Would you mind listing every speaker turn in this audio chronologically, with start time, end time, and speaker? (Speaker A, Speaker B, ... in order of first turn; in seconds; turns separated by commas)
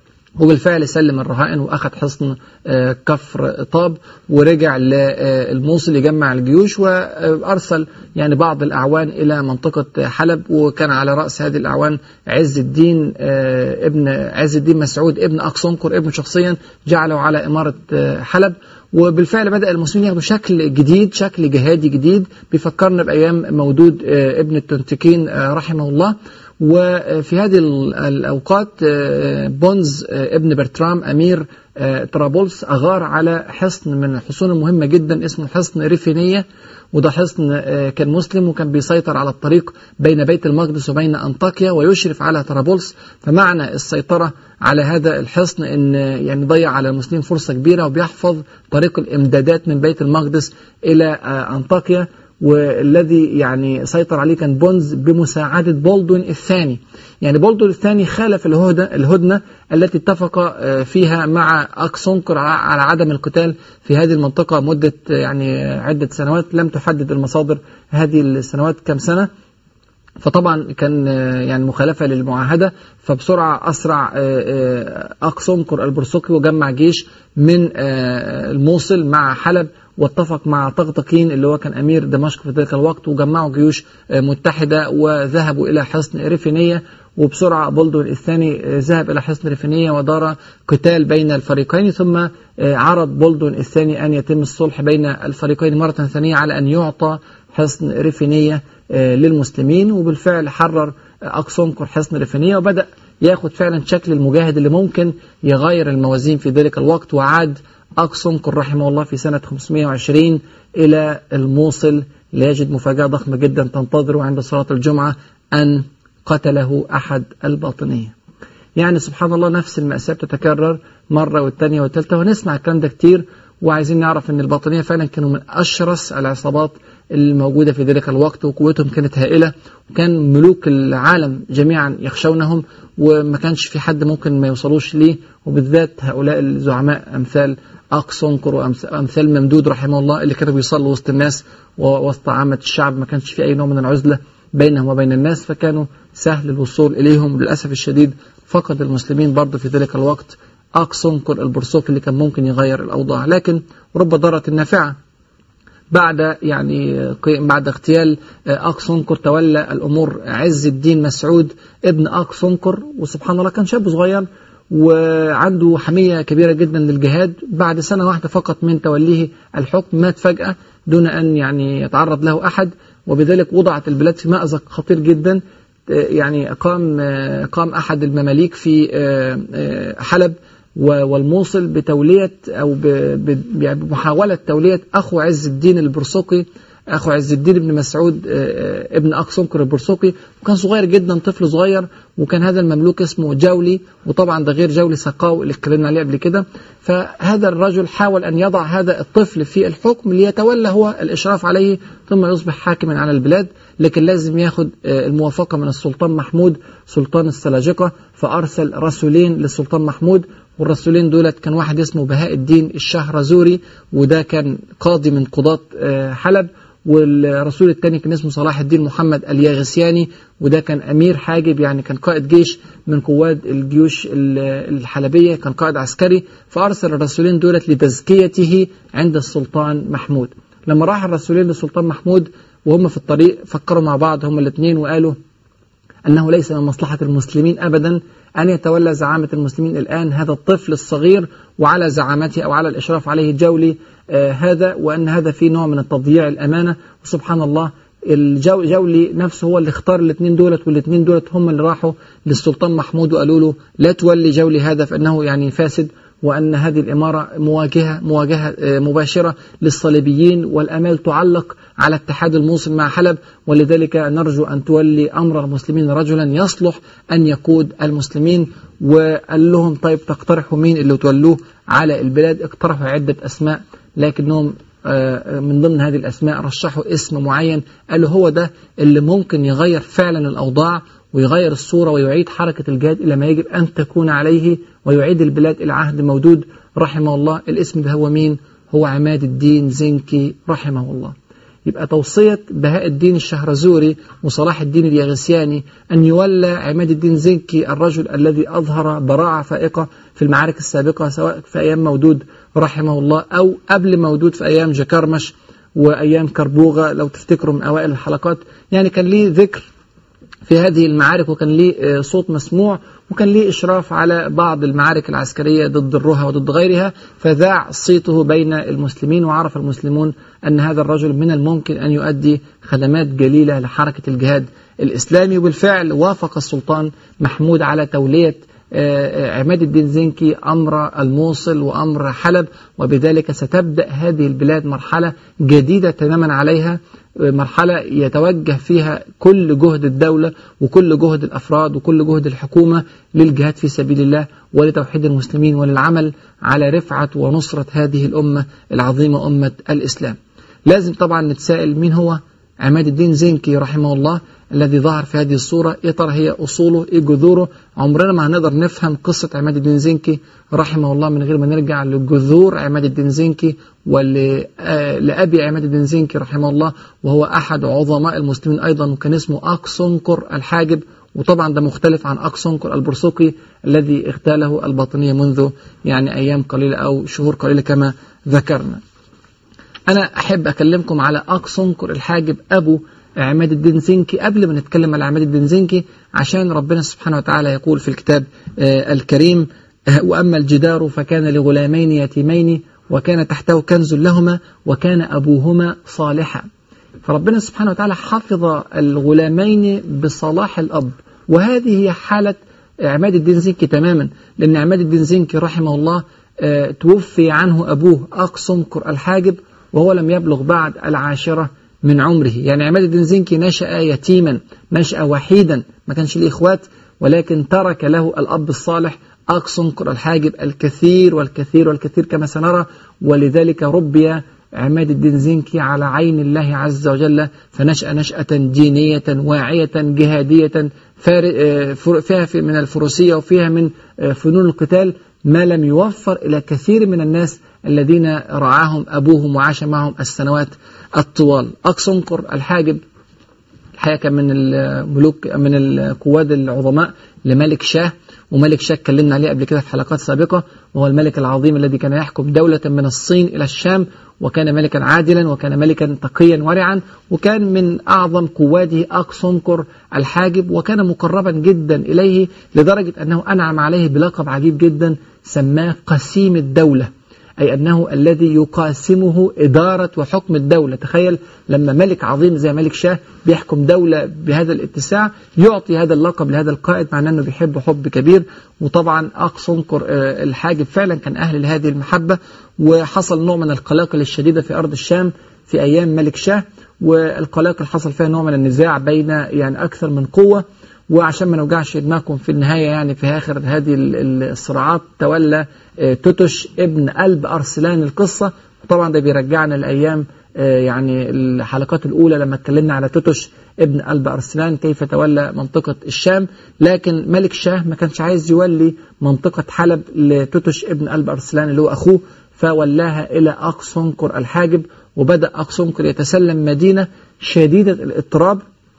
Speaker A: 0.4-69.3, Speaker A: 70.2-118.1, Speaker A: 118.8-154.9, Speaker A: 155.9-235.2, Speaker A: 236.0-309.7, Speaker A: 310.5-378.8, Speaker A: 379.9-396.4, Speaker A: 397.0-442.8, Speaker A: 443.8-518.4